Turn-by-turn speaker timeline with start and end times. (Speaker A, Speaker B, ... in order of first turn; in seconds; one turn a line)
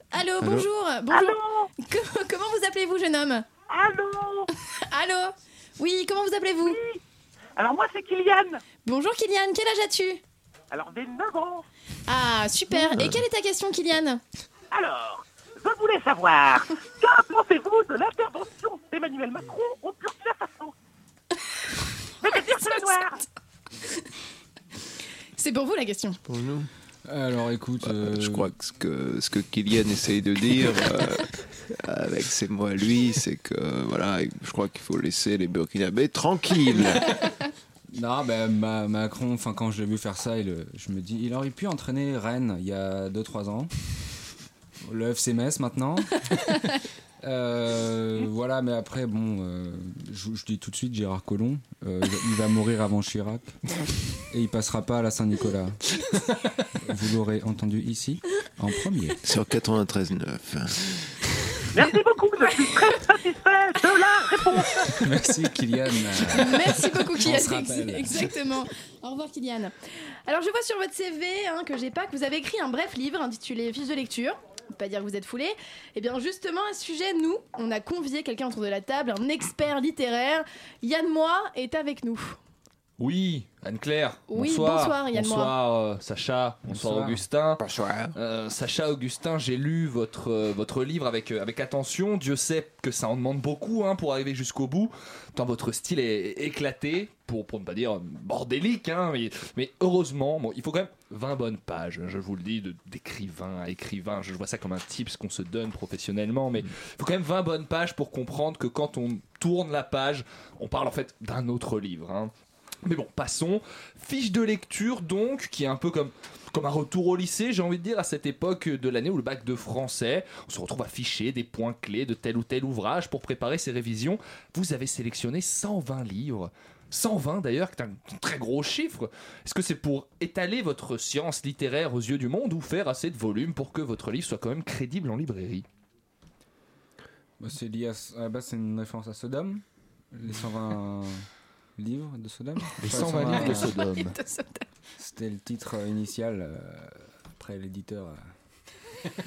Speaker A: 0.1-3.5
Speaker B: 0.4-0.7
Speaker C: 1.1-1.7
Speaker C: 3.7-4.5
Speaker A: 4.9-6.8
Speaker C: 6.6-7.0
Speaker C: 7.6-8.6
Speaker A: 8.8-10.2
Speaker C: 10.7-11.6
Speaker A: 12.1-14.2
Speaker C: 14.7-20.7
Speaker C: 22.2-23.2
Speaker A: 25.4-26.2
Speaker B: 26.2-26.7
Speaker D: 27.1-28.5
Speaker B: 27.8-37.2
Speaker D: 37.9-43.7
Speaker D: 44.8-46.3
Speaker D: 47.2-53.5
Speaker D: 54.3-55.8
Speaker D: 56.8-59.2
Speaker B: 59.2-61.1
Speaker C: 61.7-65.0
Speaker D: 65.0-68.3
Speaker A: 66.2-69.7
Speaker A: 70.3-82.4
Speaker E: 83.0-87.6
Speaker A: 84.3-85.5
Speaker D: 86.7-87.2
Speaker B: 87.6-88.1
Speaker E: 88.1-112.3
Speaker E: 112.8-135.7
Speaker D: 137.4-141.2
Speaker D: 141.8-143.7
Speaker E: 142.8-144.2
Speaker A: 143.4-144.7
Speaker D: 145.0-148.3